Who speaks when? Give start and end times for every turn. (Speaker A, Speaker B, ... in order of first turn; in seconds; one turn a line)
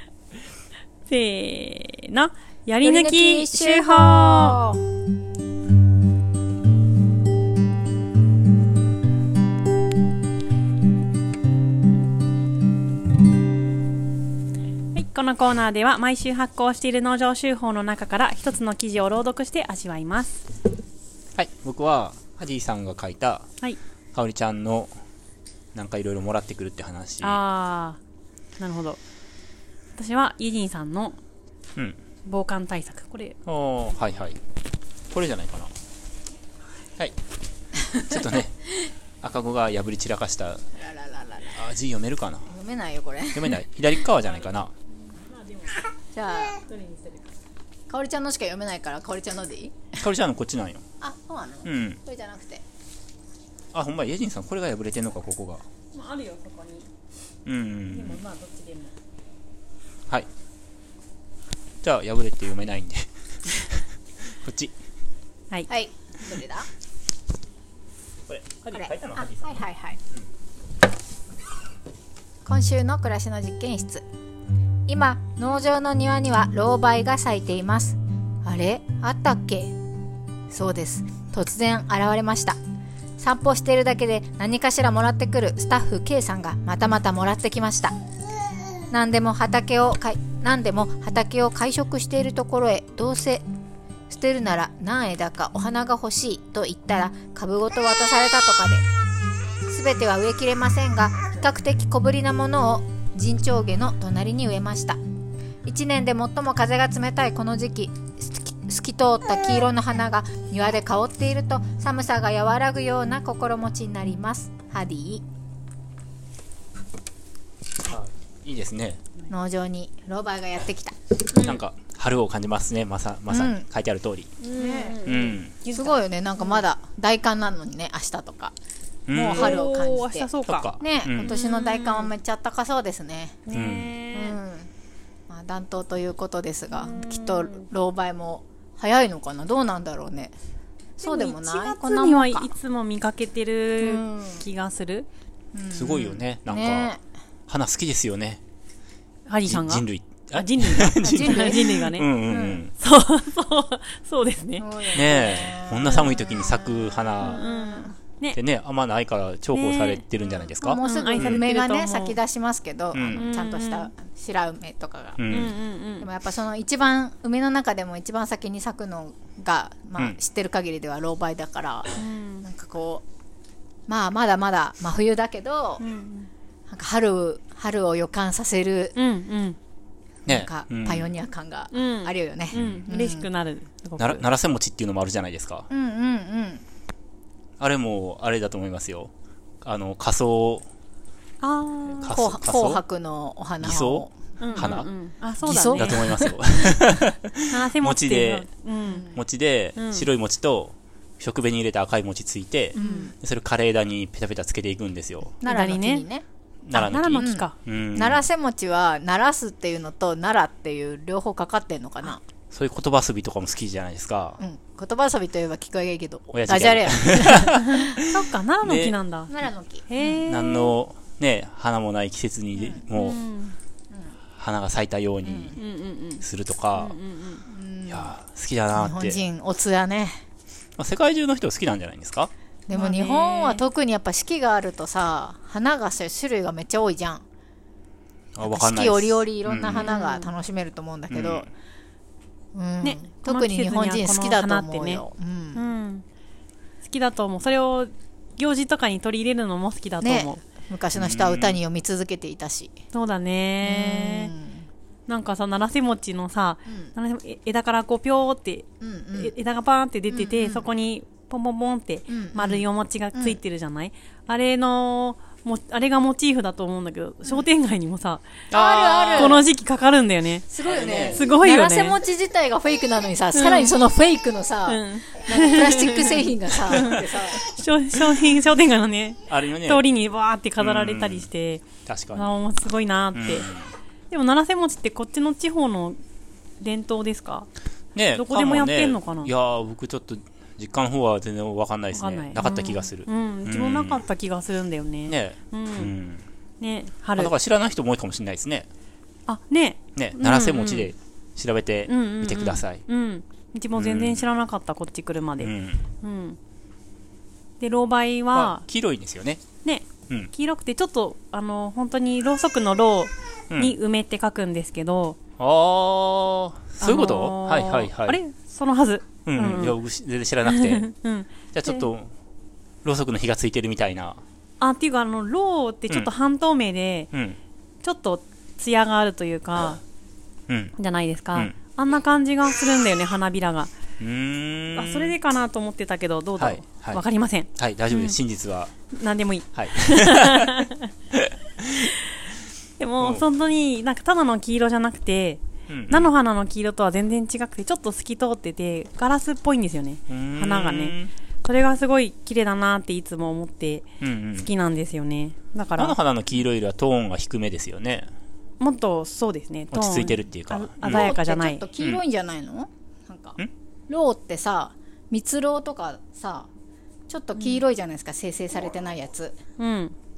Speaker A: 1.1-4.6
Speaker B: 2.8-4.8
Speaker A: 14.9-20.4
Speaker C: 21.3-23.5
Speaker C: 24.1-24.9
Speaker C: 25.7-27.4
Speaker A: 27.2-28.0
Speaker A: 28.6-29.0
Speaker A: 29.9-31.2
Speaker A: 32.2-33.4
Speaker C: 33.5-34.4
Speaker C: 35.1-35.7
Speaker B: 37.8-38.9
Speaker C: 38.1-38.5
Speaker C: 39.2-40.6
Speaker B: 40.8-41.6
Speaker C: 41.5-42.5
Speaker B: 42.5-43.6
Speaker C: 43.3-44.7
Speaker A: 45.4-45.8
Speaker B: 46.1-46.6
Speaker A: 46.6-47.3
Speaker B: 47.9-50.0
Speaker C: 50.0-50.8
Speaker B: 51.0-52.6
Speaker C: 51.6-52.0
Speaker C: 53.7-55.6
Speaker A: 55.9-56.9
Speaker C: 57.5-58.2
Speaker A: 57.9-58.9
Speaker C: 61.8-63.8
Speaker C: 64.4-64.7
Speaker B: 65.7-66.7
Speaker C: 68.3-69.5
Speaker B: 68.7-70.0
Speaker B: 72.5-74.0
Speaker B: 74.9-79.7
Speaker B: 80.5-82.6
Speaker B: 83.2-87.9
Speaker B: 88.9-93.4
Speaker B: 94.1-98.8
Speaker B: 99.7-105.0
Speaker B: 105.6-115.2
Speaker C: 117.8-119.0
Speaker B: 119.3-121.0
Speaker C: 121.3-124.3
Speaker B: 123.3-123.7
Speaker A: 124.4-126.6
Speaker B: 124.5-128.5
Speaker C: 125.0-125.5
Speaker C: 129.1-129.6
Speaker B: 129.1-133.4
Speaker A: 129.3-130.7
Speaker C: 130.5-131.3
Speaker A: 131.2-132.1
Speaker A: 133.5-134.4
Speaker C: 133.5-133.9
Speaker B: 134.1-134.7
Speaker B: 135.3-140.3
Speaker A: 136.8-137.6
Speaker B: 141.0-142.5
Speaker A: 141.0-145.1
Speaker B: 143.8-144.4
Speaker B: 145.5-147.0
Speaker C: 145.7-146.9
Speaker C: 147.5-148.4
Speaker A: 149.3-152.1
Speaker C: 149.5-152.7
Speaker B: 151.0-151.7
Speaker B: 152.3-152.6
Speaker A: 152.8-154.8
Speaker B: 154.6-157.9
Speaker C: 154.9-157.4
Speaker A: 157.2-158.4
Speaker C: 158.3-161.4
Speaker A: 159.5-160.0
Speaker B: 160.4-165.3
Speaker A: 160.6-162.2
Speaker C: 162.9-163.3
Speaker A: 163.2-163.9
Speaker C: 165.2-165.5
Speaker A: 165.3-166.1
Speaker B: 166.0-173.0
Speaker A: 172.0-172.4
Speaker B: 173.9-175.8
Speaker A: 175.8-176.3
Speaker B: 176.7-178.9
Speaker A: 178.9-179.6
Speaker B: 180.2-183.3
Speaker C: 180.3-181.1
Speaker A: 181.7-184.2
Speaker C: 182.5-182.8
Speaker C: 184.0-185.7
Speaker B: 185.7-186.6
Speaker C: 187.6-190.7
Speaker A: 191.4-192.1
Speaker C: 192.0-192.8
Speaker B: 192.1-194.7
Speaker C: 193.6-194.9
Speaker A: 194.4-196.1
Speaker B: 195.4-196.3
Speaker C: 195.4-198.5
Speaker A: 197.5-199.1
Speaker B: 198.8-199.2
Speaker C: 199.1-205.3
Speaker A: 199.8-200.1
Speaker B: 202.7-203.1
Speaker A: 202.8-203.1
Speaker B: 205.4-206.2
Speaker A: 205.4-206.0
Speaker C: 206.6-208.2
Speaker A: 206.7-207.5
Speaker B: 207.1-212.2
Speaker C: 212.5-214.4
Speaker B: 214.4-217.9
Speaker C: 216.3-219.0
Speaker A: 217.5-219.3
Speaker B: 219.3-219.8
Speaker A: 219.9-220.7
Speaker C: 220.2-223.2
Speaker A: 222.9-223.6
Speaker C: 224.3-225.6
Speaker B: 225.2-225.6
Speaker A: 225.6-227.4
Speaker C: 226.2-226.9
Speaker B: 227.5-228.1
Speaker C: 227.9-229.2
Speaker B: 228.7-230.2
Speaker C: 230.8-232.3
Speaker B: 232.7-237.2
Speaker A: 232.7-233.6
Speaker C: 238.3-239.9
Speaker B: 238.4-241.5
Speaker A: 239.7-240.3
Speaker C: 241.1-241.5
Speaker B: 242.5-245.6
Speaker A: 242.8-245.0
Speaker A: 245.5-246.0
Speaker A: 246.8-250.4
Speaker B: 250.0-252.7
Speaker C: 250.9-251.6
Speaker A: 252.9-254.3
Speaker B: 253.6-254.7
Speaker A: 255.1-268.2
Speaker B: 256.7-256.9
Speaker B: 258.8-259.3
Speaker B: 260.1-260.6
Speaker B: 262.1-263.4
Speaker C: 268.5-269.4
Speaker B: 268.5-269.4
Speaker A: 269.1-270.5
Speaker B: 270.5-277.4
Speaker C: 270.6-271.2
Speaker A: 271.1-272.0
Speaker A: 273.3-273.8
Speaker A: 274.7-283.5
Speaker C: 279.3-279.8
Speaker C: 280.6-281.3
Speaker C: 281.9-282.3
Speaker C: 283.1-283.6
Speaker A: 284.1-286.0
Speaker A: 286.6-287.5
Speaker C: 287.9-294.0
Speaker A: 288.1-289.3
Speaker A: 291.9-295.9
Speaker C: 295.1-296.2
Speaker A: 296.6-297.3
Speaker C: 297.2-298.7
Speaker A: 299.3-300.9
Speaker C: 299.9-302.8
Speaker A: 301.9-306.4
Speaker C: 303.7-304.3
Speaker C: 305.4-305.8
Speaker A: 307.6-308.6
Speaker C: 308.3-309.4
Speaker A: 309.6-315.2
Speaker C: 313.5-313.8
Speaker C: 315.4-318.2
Speaker A: 316.8-319.8
Speaker C: 319.2-320.9
Speaker A: 320.4-321.9
Speaker C: 321.5-322.1
Speaker C: 322.8-324.2
Speaker A: 324.6-327.1
Speaker C: 327.1-327.4
Speaker A: 327.8-329.8
Speaker C: 330.5-330.7
Speaker A: 330.8-333.7
Speaker C: 334.0-335.1
Speaker A: 334.7-338.1
Speaker C: 336.4-337.0
Speaker C: 337.5-338.7
Speaker A: 338.9-340.9
Speaker C: 339.5-341.9
Speaker A: 342.8-353.9
Speaker C: 345.7-346.1
Speaker C: 350.1-351.1
Speaker C: 354.0-354.5
Speaker A: 354.4-355.9
Speaker C: 355.8-358.1
Speaker A: 358.6-361.6
Speaker C: 359.7-361.1
Speaker B: 360.8-366.5
Speaker B: 367.1-369.3
Speaker A: 369.6-369.9